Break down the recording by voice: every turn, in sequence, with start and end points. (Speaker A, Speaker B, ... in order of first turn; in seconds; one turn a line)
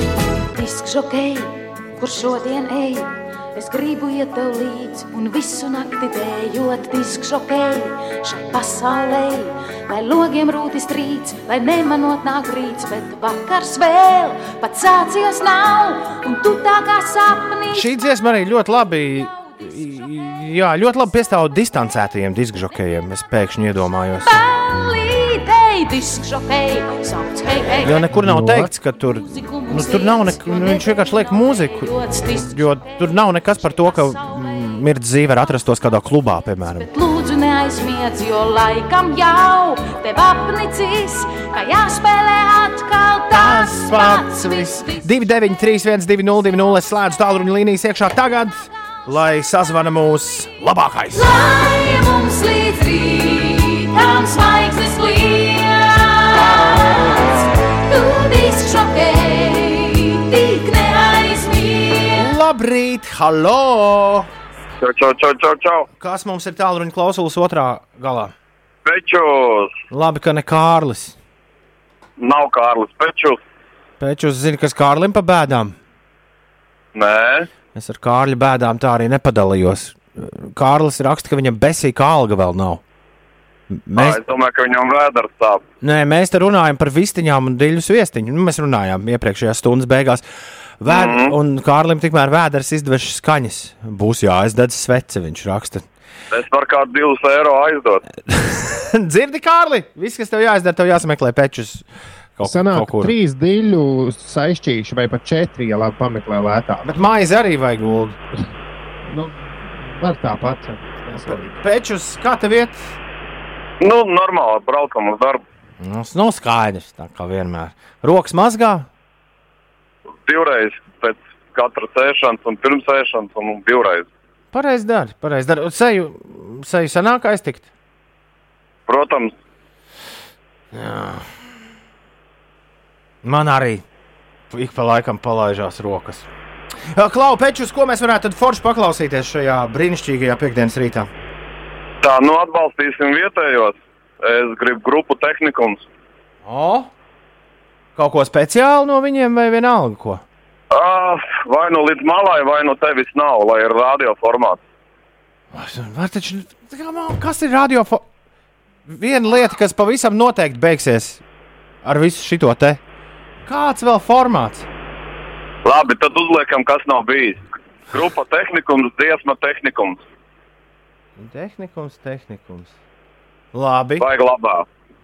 Speaker A: 0.5-18.1
Speaker B: 17.7-24.4
Speaker A: 19.1-19.9
Speaker A: 24.2-28.2
Speaker B: 27.8-36.9
Speaker C: 28.2-28.7
Speaker A: 29.0-34.8
Speaker A: 36.7-45.1
Speaker B: 43.3-51.3
Speaker A: 51.1-62.3
Speaker B: 62.1-64.3
Speaker D: 64.8-65.8
Speaker B: 66.0-68.3
Speaker D: 68.8-69.7
Speaker B: 69.9-71.2
Speaker D: 72.2-73.4
Speaker B: 74.0-75.7
Speaker D: 76.9-77.5
Speaker B: 77.7-82.8
Speaker B: 83.7-84.2
Speaker D: 84.0-85.6
Speaker B: 85.8-90.2
Speaker B: 90.8-95.9
Speaker D: 90.9-91.3
Speaker D: 96.3-98.0
Speaker B: 98.3-101.8
Speaker B: 102.3-103.1
Speaker C: 102.4-107.0
Speaker B: 106.8-108.2
Speaker C: 109.1-111.5
Speaker B: 110.0-110.6
Speaker B: 111.1-113.0
Speaker D: 113.8-115.4
Speaker B: 115.8-118.9
Speaker D: 120.3-124.0
Speaker B: 124.5-127.7
Speaker D: 128.9-129.3
Speaker B: 130.7-131.3
Speaker B: 133.2-133.8
Speaker B: 134.5-141.1
Speaker D: 142.0-145.8
Speaker B: 146.4-146.9
Speaker B: 147.9-150.2
Speaker D: 150.7-154.6
Speaker B: 155.5-158.1
Speaker B: 158.8-161.2
Speaker B: 161.8-162.8
Speaker B: 163.4-164.7
Speaker D: 165.7-170.0
Speaker B: 171.2-172.7
Speaker B: 173.5-174.1
Speaker D: 174.0-174.7